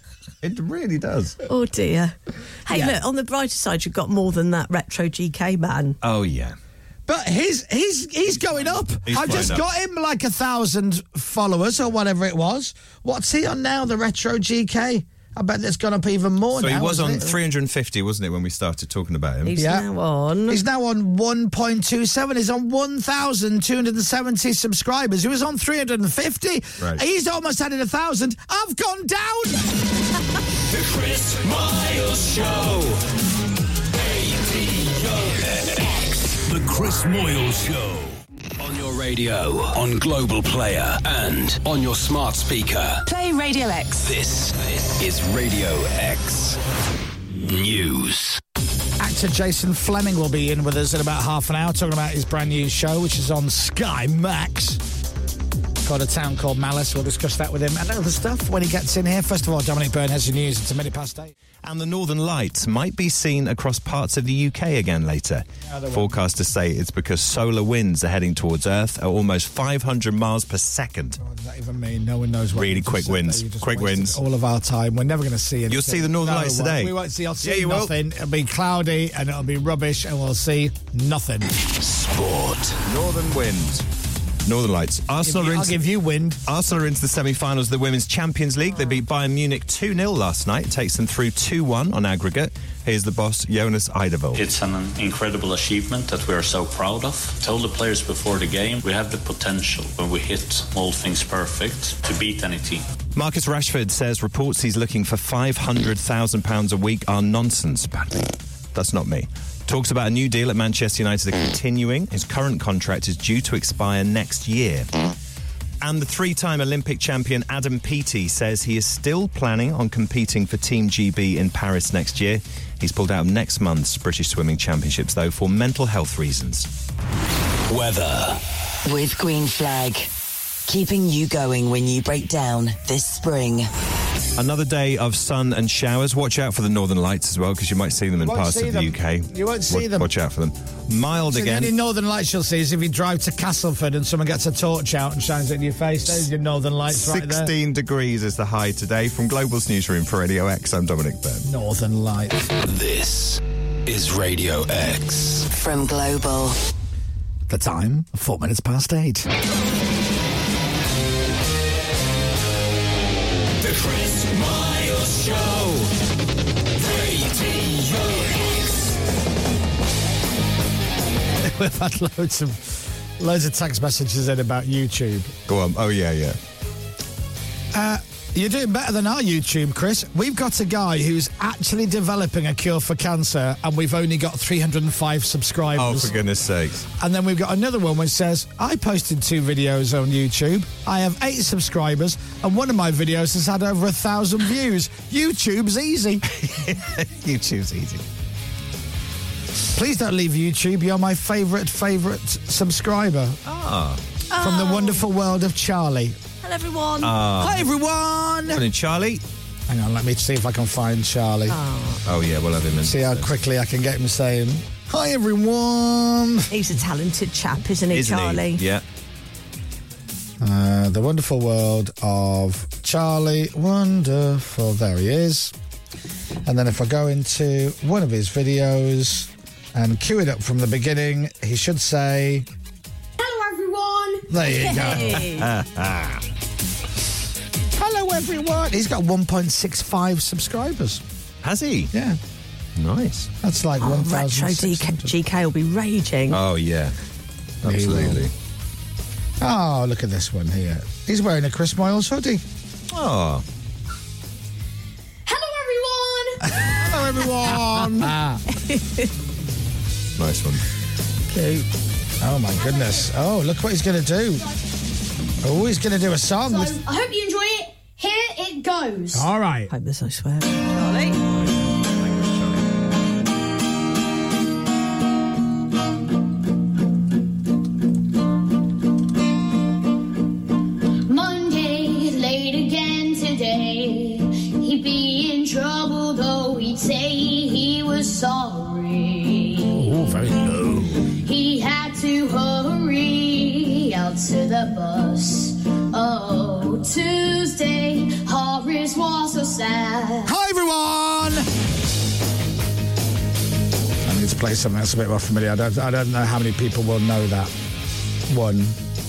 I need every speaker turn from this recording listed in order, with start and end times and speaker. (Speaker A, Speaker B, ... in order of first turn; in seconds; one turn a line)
Speaker A: 0.4-1.4
Speaker B: 1.4-6.0
Speaker C: 2.7-3.0
Speaker A: 6.0-6.5
Speaker C: 7.1-17.3
Speaker A: 9.1-9.6
Speaker A: 16.6-19.5
Speaker B: 19.4-20.6
Speaker C: 19.6-19.9
Speaker C: 20.5-29.7
Speaker D: 30.9-32.7
Speaker D: 34.5-35.7
Speaker D: 36.4-43.0
Speaker E: 43.0-44.1
Speaker D: 44.1-46.5
Speaker D: 47.4-48.4
Speaker C: 49.0-54.8
Speaker C: 55.8-61.3
Speaker A: 61.6-71.2
Speaker C: 65.6-66.2
Speaker C: 71.2-81.5
Speaker A: 72.5-74.2
Speaker A: 75.7-77.9
Speaker D: 81.8-82.8
Speaker A: 82.8-83.8
Speaker A: 84.4-85.8
Speaker C: 85.2-86.4
Speaker A: 86.5-94.4
Speaker F: 94.3-102.8
Speaker A: 103.1-114.9
Speaker A: 115.8-126.7
Speaker D: 127.7-128.4
Speaker E: 128.8-130.1
Speaker E: 130.7-133.7
Speaker A: 134.4-141.7
Speaker C: 138.2-140.1
Speaker C: 141.3-147.5
Speaker A: 146.9-151.4
Speaker C: 151.4-152.5
Speaker D: 152.6-155.4
Speaker E: 155.4-156.6
Speaker C: 157.5-159.3
Speaker A: 164.0-165.9
Speaker C: 171.4-175.3
Speaker A: 175.5-176.4
Speaker C: 177.7-186.1
Speaker A: 185.8-186.9
Speaker C: 186.9-196.3
Speaker A: 196.3-198.0
Speaker C: 199.7-203.4
Speaker A: 203.4-204.0
Speaker B: 204.3-205.0
Speaker C: 204.4-206.2
Speaker B: 206.4-207.2
Speaker A: 207.0-207.7
Speaker C: 207.4-208.6
Speaker A: 208.5-209.2
Speaker C: 209.7-211.6
Speaker B: 211.5-212.0
Speaker A: 212.1-213.3
Speaker C: 212.8-216.5
Speaker B: 216.5-218.6
Speaker A: 217.9-218.8
Speaker C: 220.4-225.5
Speaker C: 226.4-232.5
Speaker G: 233.2-234.3
Speaker C: 234.3-235.3
Speaker B: 234.4-235.5
Speaker A: 235.2-236.2
Speaker C: 237.7-241.0
Speaker A: 241.4-241.9
Speaker C: 241.9-242.2
Speaker A: 242.8-243.3
Speaker C: 243.4-245.1
Speaker B: 243.8-246.4
Speaker A: 246.3-246.9
Speaker C: 247.6-248.2
Speaker A: 247.6-248.3
Speaker C: 249.4-252.4
Speaker A: 252.9-253.4
Speaker G: 255.2-256.9
Speaker C: 256.4-258.4
Speaker A: 256.8-258.1
Speaker B: 258.6-259.1
Speaker A: 260.2-260.6
Speaker B: 261.3-261.6
Speaker C: 262.2-264.4
Speaker G: 262.5-263.1
Speaker C: 265.4-266.8
Speaker G: 266.4-269.3
Speaker C: 269.1-269.7
Speaker B: 269.7-271.1
Speaker A: 271.3-272.6
Speaker G: 281.1-289.9
Speaker C: 289.7-290.9
Speaker G: 291.1-300.3
Speaker C: 300.2-301.5
Speaker C: 304.0-307.5
Speaker C: 308.3-308.8